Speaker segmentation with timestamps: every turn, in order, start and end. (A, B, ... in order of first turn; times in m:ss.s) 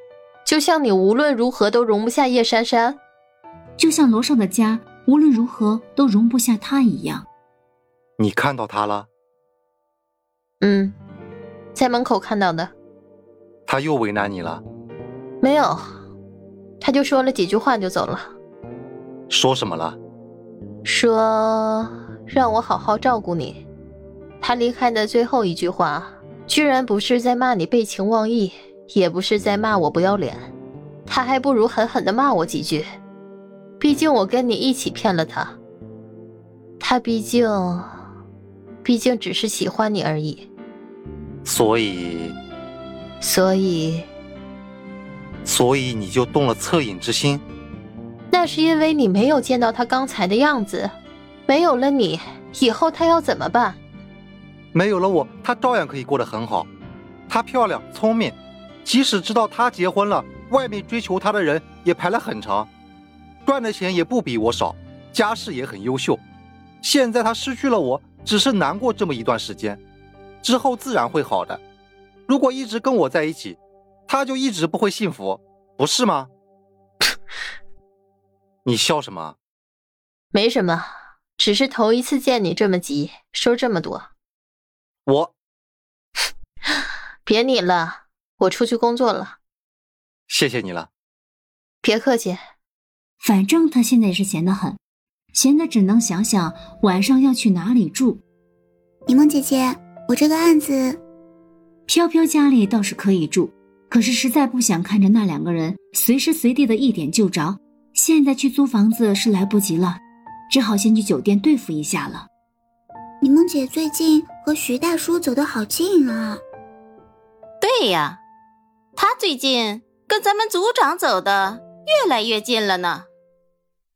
0:00.4-0:03.0 A
0:03.8-0:07.3 B
0:08.2-0:09.1 C
0:10.6-0:11.0 A
0:11.8-0:12.7 A
0:13.7-0:14.6 C
0:15.4-0:15.8 A
0:16.8-0:18.4 A
0:19.3-0:20.0 C
0:20.8-0:23.6 A
0:24.4-0:30.5 A
0:31.1-0:32.9 A
0:33.8-0:35.6 A
0:36.8-0:37.9 A
0:38.8-0:40.5 A
0:41.4-0:42.4 C
0:43.2-0:44.1 A
0:45.4-0:47.4 C
0:48.3-0:50.9 A
0:51.5-0:53.8 A
0:54.7-0:56.7 C
0:57.3-1:02.7 C
1:03.5-1:06.2 C
1:06.8-1:09.8 C
1:10.4-1:11.6 C
1:12.3-1:16.3 C
1:18.6-1:19.4 C
1:20.3-1:20.9 A
1:21.4-1:24.1 A
1:25.1-1:25.3 C
1:26.7-1:29.4 A
1:30.3-1:30.9 C
1:31.8-1:32.4 A
1:33.2-1:34.8 B
1:35.3-1:38.2 B
1:39.1-1:41.0 D
1:41.9-1:52.3 B
1:53.2-1:56.4 D
1:57.6-1:58.2 E
1:59.0-2:03.1 E